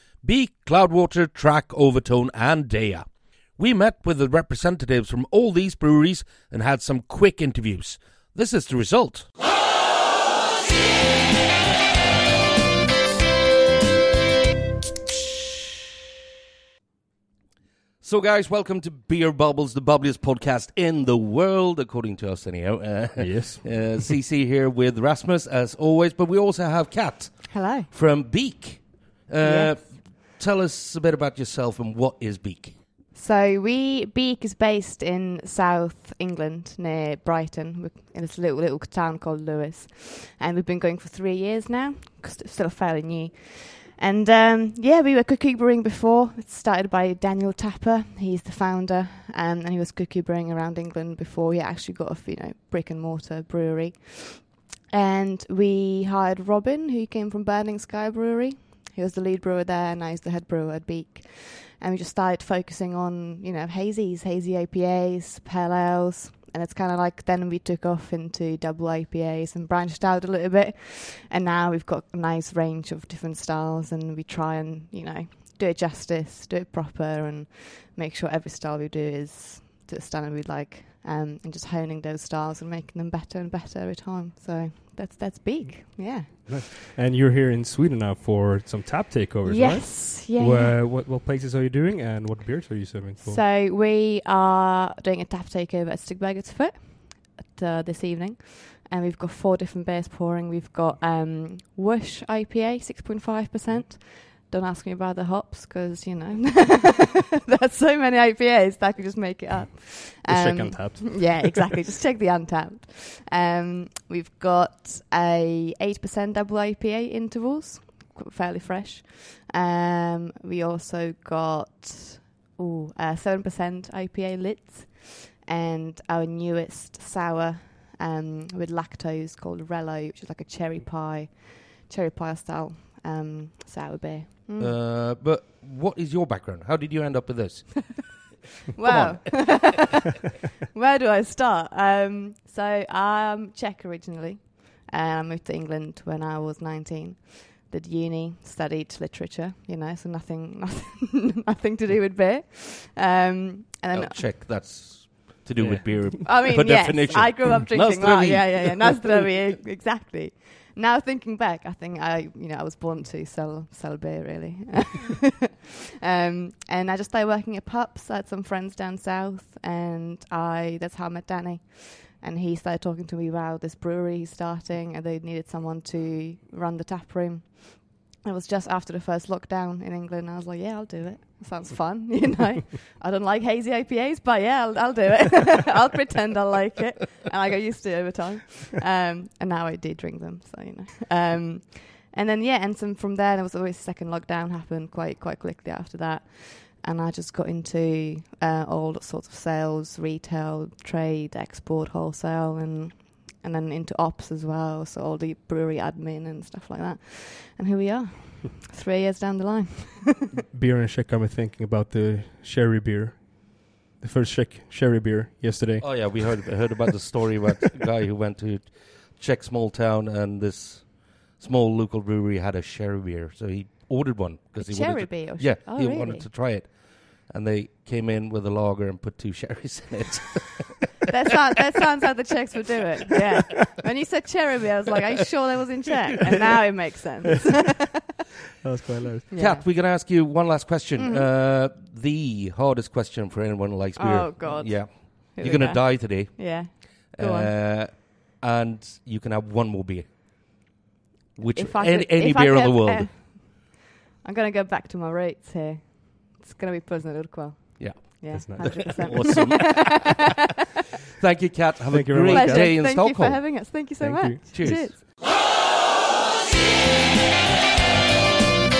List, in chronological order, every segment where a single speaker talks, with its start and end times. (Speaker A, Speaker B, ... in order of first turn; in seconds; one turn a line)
Speaker A: 0.2-9.3
Speaker A: 18.0-32.8
Speaker B: 23.2-23.8
Speaker C: 27.5-27.9
Speaker C: 29.4-29.9
Speaker C: 33.1-86.7
Speaker B: 85.7-93.4
Speaker C: 89.4-90.8
Speaker C: 93.2-134.8
Speaker B: 110.2-111.7
Speaker A: 134.6-139.8
Speaker C: 138.7-140.1
Speaker C: 140.7-154.6
Speaker A: 153.9-159.3
Speaker B: 155.6-156.1
Speaker C: 156.0-165.5
Speaker C: 166.0-210.3
Speaker B: 210.5-216.2
Speaker A: 215.8-230.8
Speaker C: 224.6-226.3
Speaker C: 231.1-237.9
Speaker B: 238.6-239.2
Speaker C: 239.3-239.7
Speaker A: 239.3-250.3
Speaker C: 241.0-241.3
Speaker C: 243.9-247.5
Speaker A: 251.3-253.2
Speaker C: 251.5-260.1
Speaker A: 257.8-260.3
Speaker B: 258.3-259.2
Speaker A: 261.1-263.9
Speaker B: 261.9-262.6
Speaker C: 262.2-265.0
Speaker B: 264.0-264.4
Speaker A: 264.5-265.0